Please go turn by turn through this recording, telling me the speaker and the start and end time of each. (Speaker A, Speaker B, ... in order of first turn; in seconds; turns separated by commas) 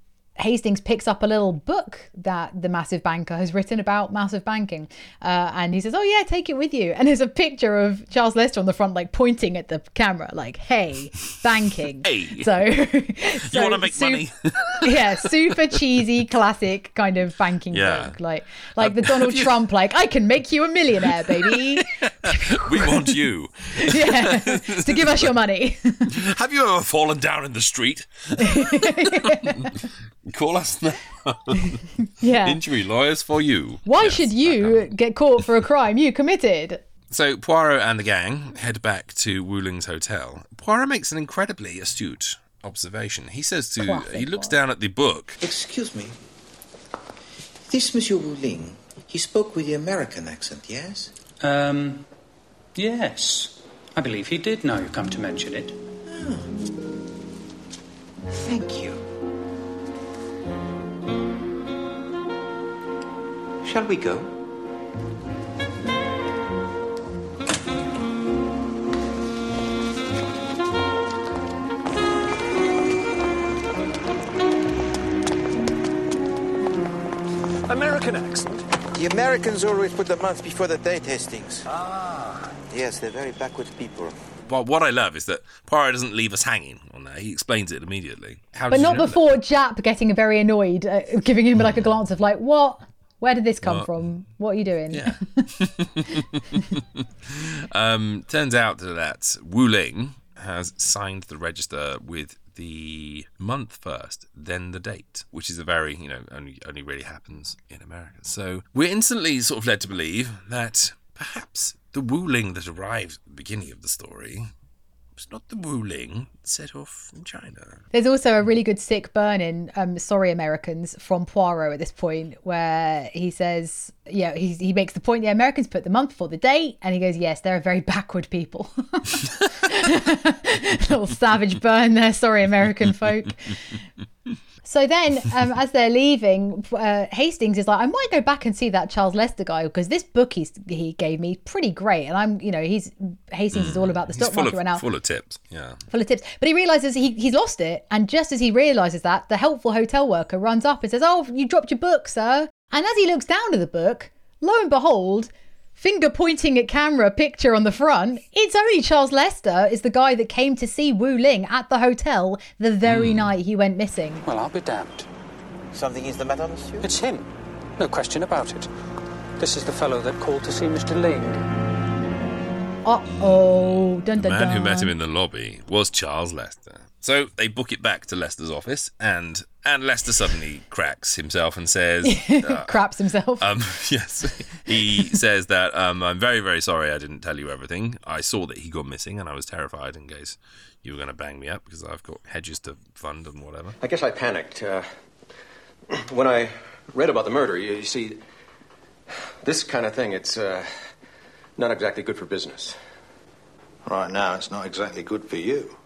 Speaker A: 0.4-14.2, Speaker B: 12.0-12.5, Speaker B: 13.4-15.3, Speaker A: 14.8-23.1, Speaker B: 17.7-18.1, Speaker B: 18.8-19.6, Speaker B: 21.1-25.3, Speaker A: 23.7-26.2, Speaker B: 26.1-34.9, Speaker A: 28.4-29.8, Speaker A: 32.1-32.6, Speaker A: 33.9-36.8, Speaker B: 37.1-45.4, Speaker A: 43.8-44.5, Speaker C: 45.4-46.1, Speaker C: 47.7-51.1, Speaker D: 51.4-52.0, Speaker D: 52.8-55.8, Speaker C: 56.1-56.5, Speaker C: 58.3-59.0, Speaker C: 63.6-64.3, Speaker E: 77.7-78.6, Speaker C: 78.9-81.7, Speaker E: 81.7-82.5, Speaker C: 82.7-84.2, Speaker B: 84.4-89.3, Speaker A: 88.7-95.5, Speaker B: 93.6-93.9, Speaker B: 94.9-114.5, Speaker B: 115.2-117.8, Speaker A: 117.9-133.6, Speaker A: 134.6-144.8, Speaker B: 143.5-145.8, Speaker A: 145.9-164.2, Speaker B: 162.8-163.3, Speaker D: 164.2-165.1, Speaker C: 165.7-166.9, Speaker D: 166.8-168.7, Speaker D: 169.4-171.4, Speaker A: 172.8-174.9, Speaker B: 173.3-182.8, Speaker A: 182.0-183.5, Speaker B: 183.4-193.8, Speaker E: 193.8-194.8, Speaker E: 195.9-198.2, Speaker E: 199.4-200.7, Speaker E: 201.6-202.8, Speaker F: 203.8-205.8